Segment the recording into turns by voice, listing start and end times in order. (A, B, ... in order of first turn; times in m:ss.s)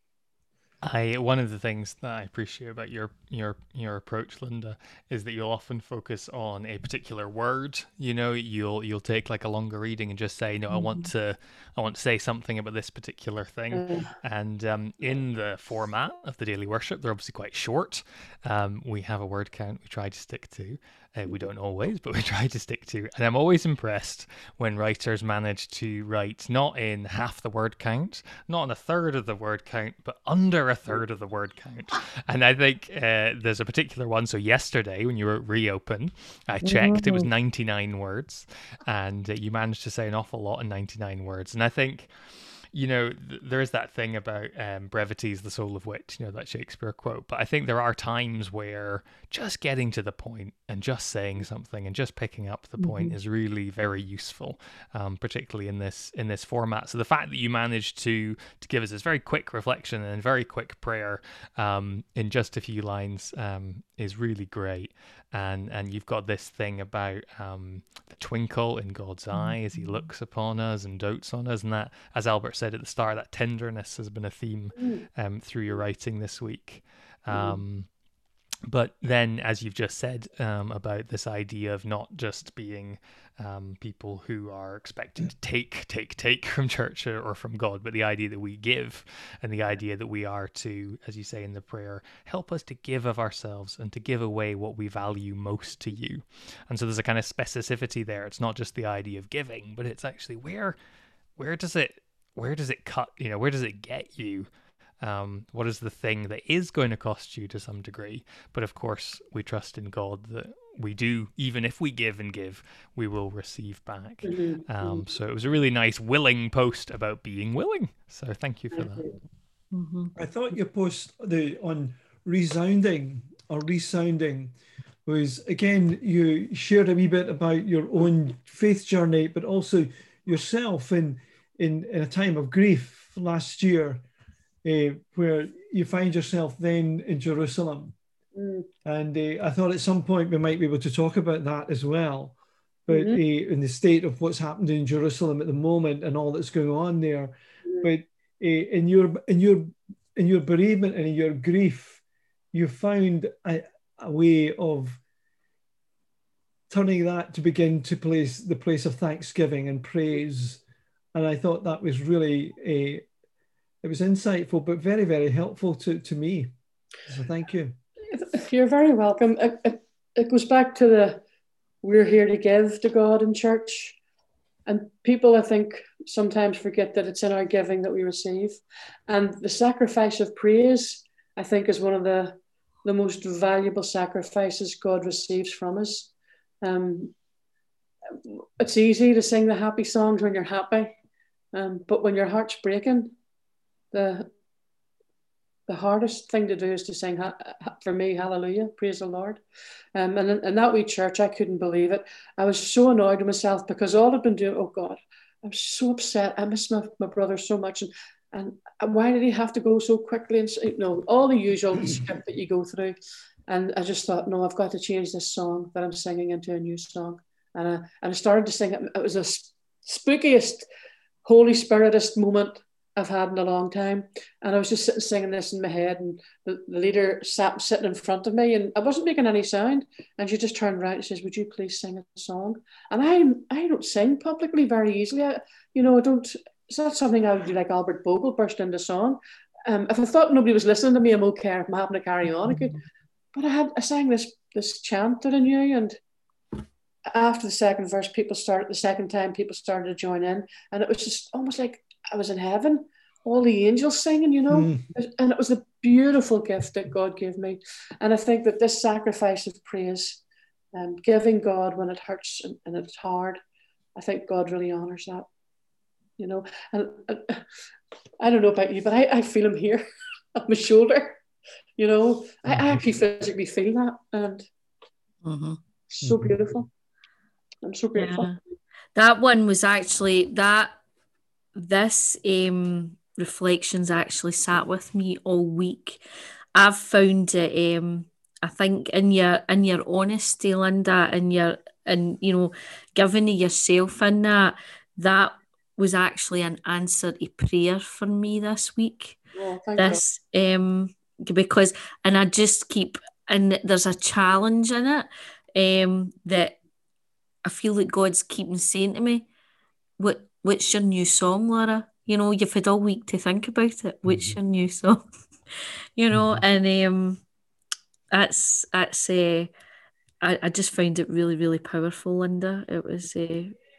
0:00.8-0:42.1 A
0:10.7-0:11.1 B
0:13.7-0:14.1 C
0:36.6-0:37.3 B
0:42.7-1:17.9 A
1:09.3-1:09.9 B
1:14.8-1:15.0 C
1:17.3-1:17.6 C
1:18.7-1:40.8 A
1:41.4-1:44.5 A
1:45.0-1:59.1 A
1:54.2-1:55.0 C
1:58.7-1:59.1 C
1:59.7-2:00.1 B
2:00.2-2:04.5 D
2:05.0-2:14.0 D
2:14.6-2:17.9 D
2:18.3-2:18.7 C
2:18.8-2:32.0 D
2:22.9-2:23.2 C
2:32.5-2:35.0 D
2:36.7-2:40.6 D
2:41.1-2:43.0 D
2:43.8-2:46.5 D
2:47.1-2:47.8 D
2:48.1-2:51.2 C
2:51.8-2:54.0 C
2:54.6-3:06.1 C
3:06.6-3:07.1 C
3:08.1-3:11.0 C
3:11.5-3:13.1 C
3:13.9-3:14.3 C
3:15.7-3:19.4 C
3:19.9-3:33.0 C
3:33.5-3:40.6 C
3:41.2-4:02.8 C
4:03.3-4:06.0 C
4:07.1-4:20.2 C
4:14.5-4:14.8 D
4:20.7-4:23.4 C
4:24.0-4:25.3 C
4:26.2-4:27.4 C
4:28.2-4:29.8 C
4:30.3-4:31.2 C
4:31.8-4:34.4 C
4:32.5-4:32.8 D
4:35.2-4:35.6 B
4:35.9-4:36.7 C
4:36.0-4:36.4 D
4:37.6-4:38.3 C
4:37.9-4:38.4 B
4:38.9-4:40.8 B
4:41.5-4:46.0 B
4:46.5-4:59.2 B
4:59.3-5:00.0 C
4:59.8-5:06.6 B
5:07.4-5:09.3 B
5:10.0-5:15.0 B
5:14.0-5:14.3 D
5:16.0-5:17.2 B
5:16.1-5:16.4 D
5:18.1-5:19.5 B
5:20.2-5:23.6 B